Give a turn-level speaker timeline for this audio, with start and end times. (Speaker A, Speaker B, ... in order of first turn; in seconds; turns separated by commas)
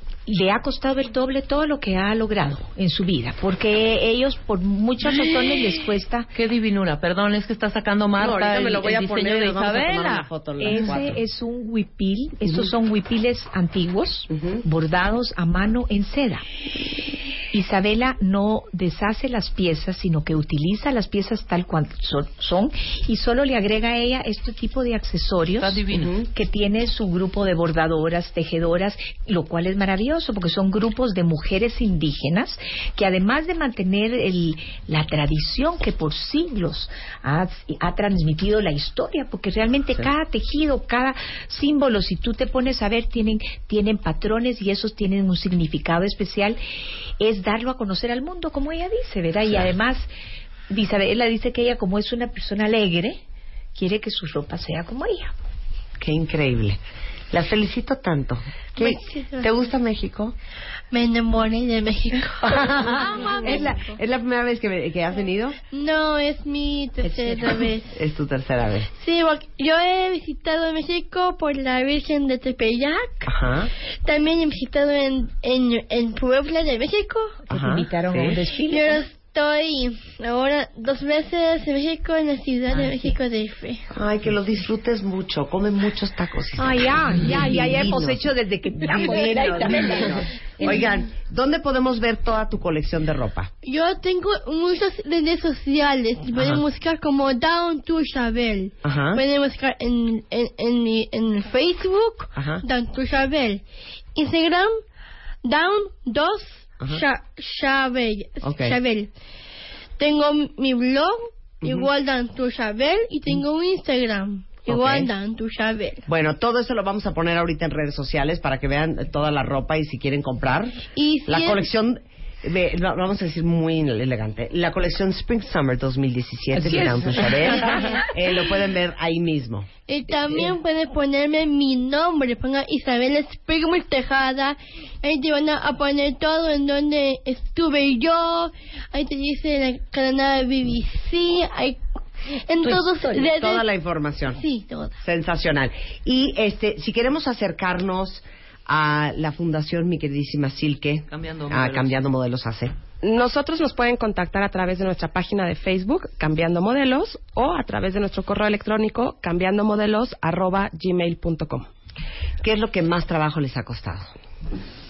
Speaker A: 0.3-6.3, Speaker B: 6.3-10.8, Speaker C: 8.2-11.2, Speaker A: 10.6-16.4, Speaker C: 14.3-14.6, Speaker A: 17.5-46.6, Speaker B: 25.6-26.2, Speaker C: 25.9-26.2, Speaker A: 47.2-50.1, Speaker A: 50.7-53.2, Speaker A: 53.8-55.3, Speaker C: 56.0-56.8, Speaker C: 57.3-60.4, Speaker D: 58.8-59.4, Speaker D: 60.9-63.9, Speaker C: 62.4-65.6, Speaker D: 65.7-67.9, Speaker C: 67.1-68.9, Speaker D: 69.0-73.3, Speaker C: 73.2-73.7, Speaker D: 74.0-77.4, Speaker A: 77.5-79.0, Speaker C: 77.5-78.4, Speaker D: 78.7-83.8, Speaker C: 83.9-88.2, Speaker A: 86.6-90.9, Speaker C: 88.8-93.5, Speaker D: 93.6-103.6, Speaker C: 96.3-96.6, Speaker C: 98.8-99.2, Speaker C: 102.3-102.6, Speaker D: 104.1-104.8, Speaker D: 105.4-109.1, Speaker C: 108.4-108.8, Speaker D: 110.0-116.0, Speaker C: 111.6-111.9, Speaker C: 114.7-115.1, Speaker C: 116.1-129.7, Speaker D: 120.9-121.6, Speaker A: 126.5-127.8, Speaker D: 129.9-143.6, Speaker C: 142.6-144.4, Speaker A: 142.7-143.1, Speaker D: 144.3-144.9, Speaker C: 145.0-152.7, Speaker B: 151.1-151.9, Speaker E: 153.0-161.7, Speaker C: 162.4-164.1